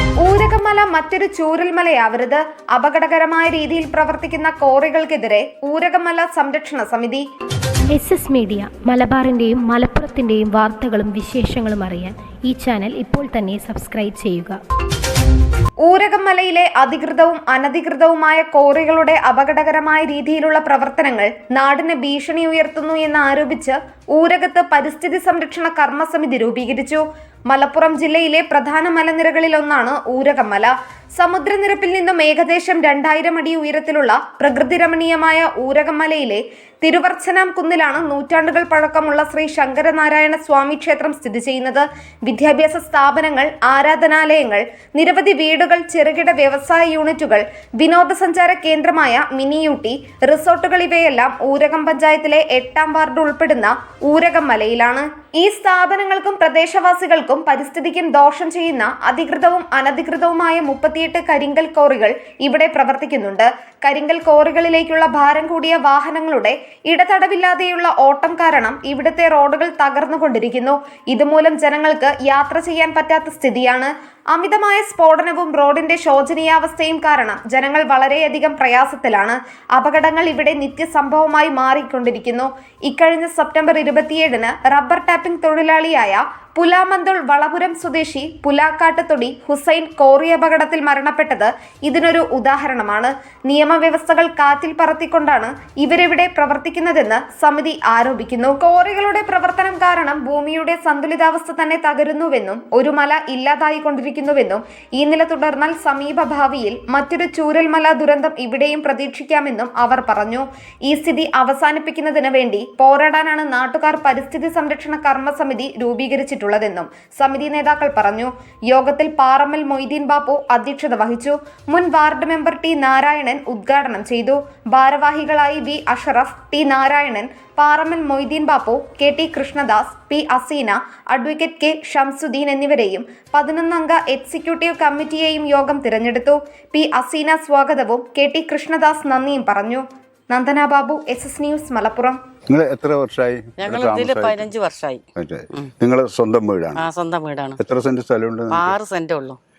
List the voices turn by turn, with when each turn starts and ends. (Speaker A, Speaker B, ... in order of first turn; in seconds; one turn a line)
Speaker A: 0.2-7.2
Speaker B: 7.9-14.6
Speaker A: 15.9-142.2
Speaker C: 142.5-144.5
Speaker D: 143.6-145.0
Speaker C: 145.2-146.8
Speaker D: 146.8-147.6
Speaker C: 147.6-148.8
Speaker D: 148.5-149.4